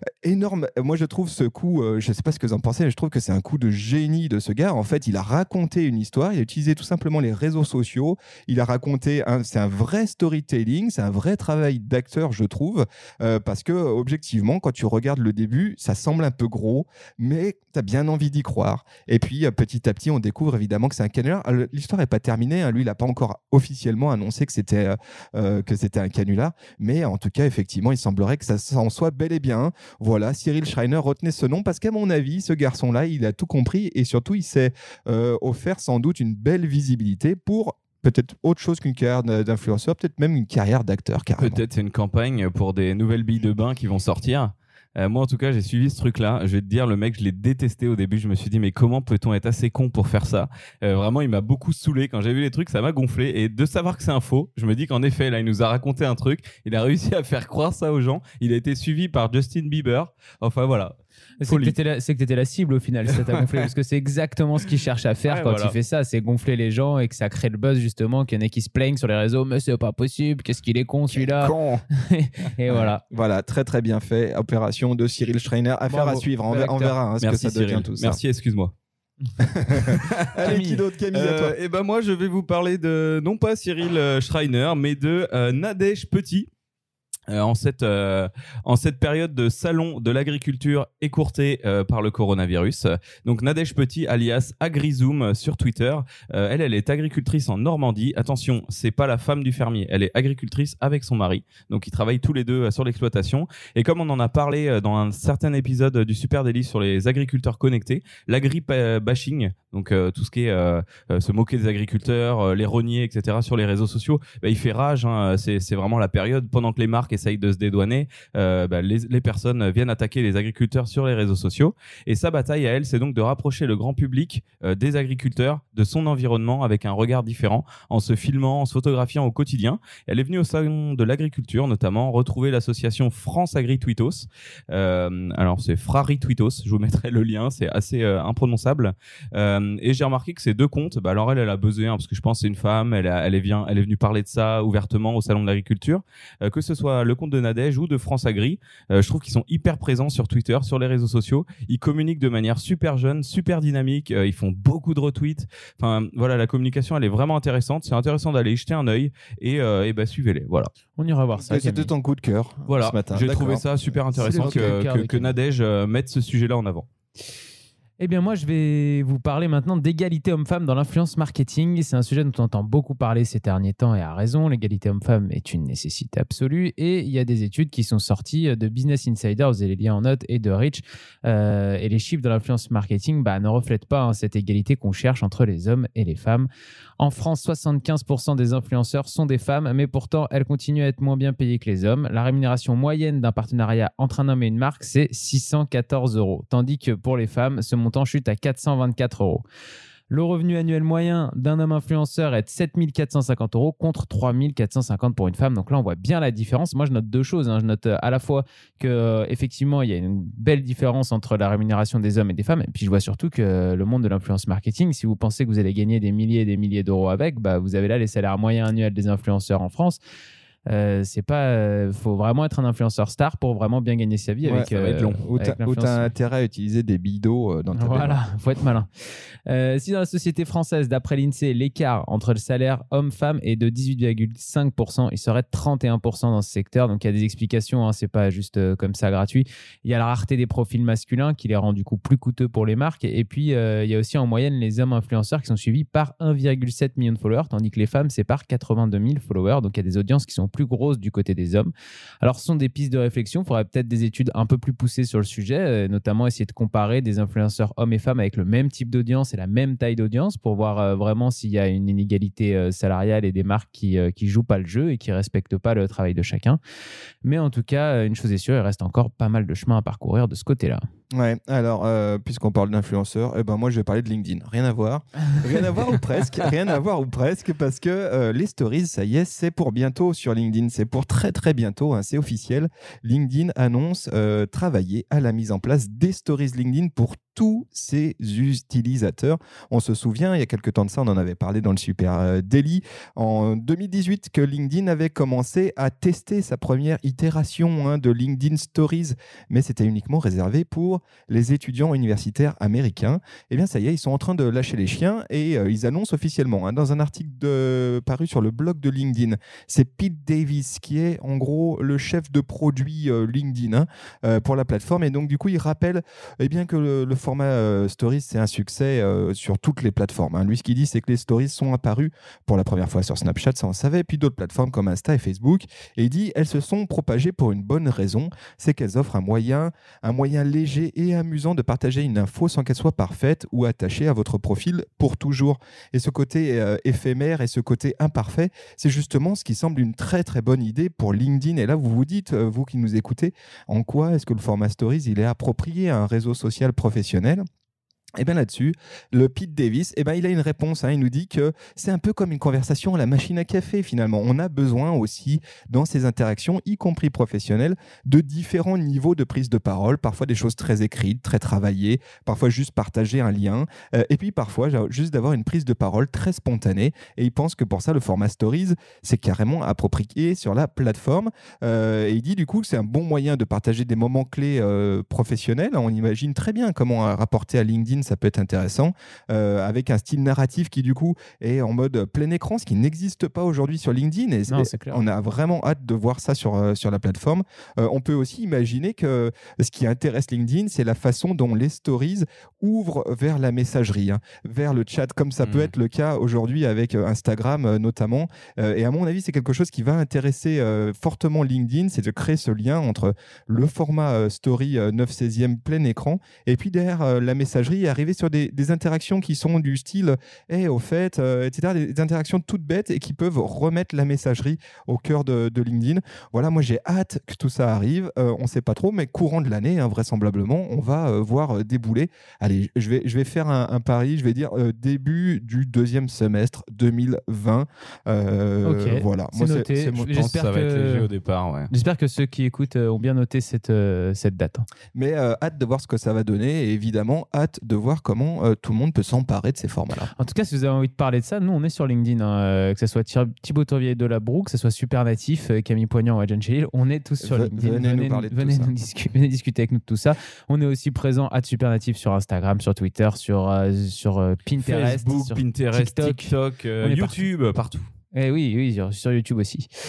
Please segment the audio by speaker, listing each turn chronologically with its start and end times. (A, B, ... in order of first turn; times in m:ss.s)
0:00.2-0:41.6 A
0:41.4-1:01.8 B
1:01.4-1:13.0 C
1:05.2-1:05.8 B
1:11.2-1:11.8 B
1:12.7-1:18.2 A
1:15.9-1:17.0 C
1:17.2-1:18.7 B
1:19.4-1:21.6 A
1:19.7-1:20.6 B
1:20.4-1:20.8 C
1:21.1-1:26.5 B
1:27.3-2:40.7 B
2:40.9-2:41.9 C
2:41.4-2:44.7 A
2:42.7-2:46.8 B
2:44.1-2:45.4 C
2:48.0-3:06.5 C
3:07.0-3:19.4 C
3:20.1-3:40.0 C
3:40.7-3:46.1 C
3:44.4-3:44.7 A
3:44.6-3:45.3 B
3:45.2-3:48.2 A
3:47.7-3:48.9 C
3:49.5-4:26.6 C
4:27.2-4:30.8 C
4:31.1-5:47.4 A
5:48.2-7:10.1 A
6:24.5-6:25.0 C
6:35.4-6:35.7 B
7:08.6-7:11.1 C
7:10.1-7:11.7 B
7:11.7-7:14.6 C
7:14.9-7:20.1 A
7:20.1-7:37.3 C
7:27.2-7:28.7 A
7:34.6-7:37.9 B
7:38.1-7:39.7 C